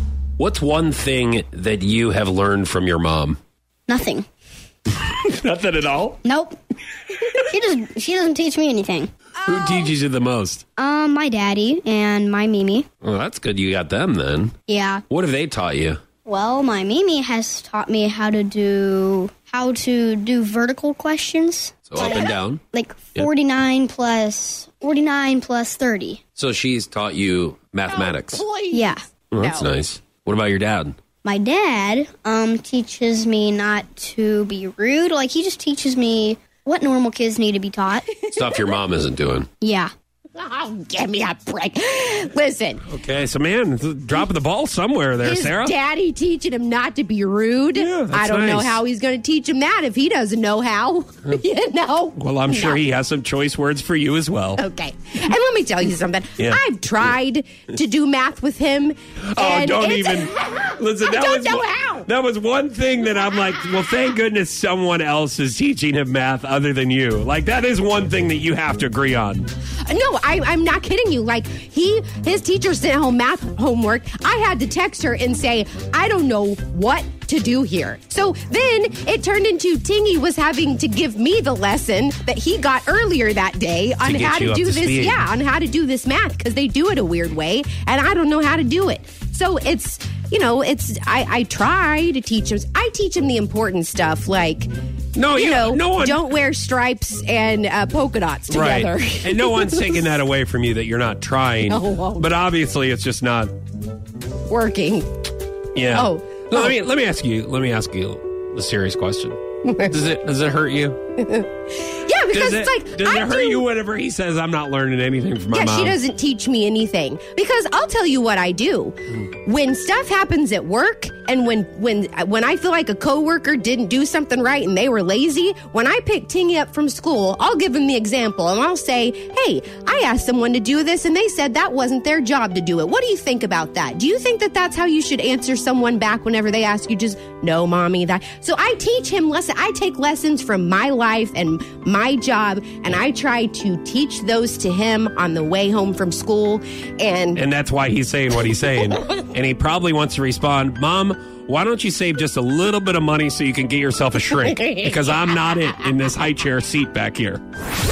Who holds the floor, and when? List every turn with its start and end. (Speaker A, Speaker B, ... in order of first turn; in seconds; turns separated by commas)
Speaker A: 0.4-3.4, Speaker B: 3.9-4.2, Speaker A: 5.0-6.2, Speaker B: 6.2-6.6, Speaker B: 7.4-9.1, Speaker A: 9.4-10.6, Speaker C: 9.4-9.8, Speaker B: 10.8-12.8, Speaker A: 13.0-14.5, Speaker B: 14.7-15.0, Speaker A: 15.1-16.0, Speaker B: 16.2-26.2, Speaker A: 21.9-22.6, Speaker C: 22.0-22.3, Speaker A: 26.4-28.4, Speaker C: 27.9-29.7, Speaker B: 28.7-29.0, Speaker A: 29.3-31.0, Speaker B: 31.2-38.0, Speaker C: 38.2-38.8, Speaker A: 38.3-39.5, Speaker B: 39.6-39.9, Speaker C: 40.3-42.8, Speaker A: 42.8-45.7, Speaker C: 45.2-52.8, Speaker A: 47.7-48.8, Speaker A: 52.2-54.6, Speaker C: 54.6-62.1, Speaker A: 56.4-57.1, Speaker A: 59.2-69.5, Speaker C: 69.8-94.7, Speaker A: 84.0-85.3, Speaker A: 95.1-96.3, Speaker C: 95.3-100.1, Speaker A: 98.5-103.5, Speaker C: 101.6-102.3, Speaker C: 104.5-105.1, Speaker A: 105.7-111.0, Speaker C: 105.9-106.8, Speaker C: 109.7-109.9, Speaker C: 111.3-113.6, Speaker A: 112.3-116.0, Speaker C: 115.5-147.4, Speaker A: 147.3-157.4, Speaker C: 154.5-154.9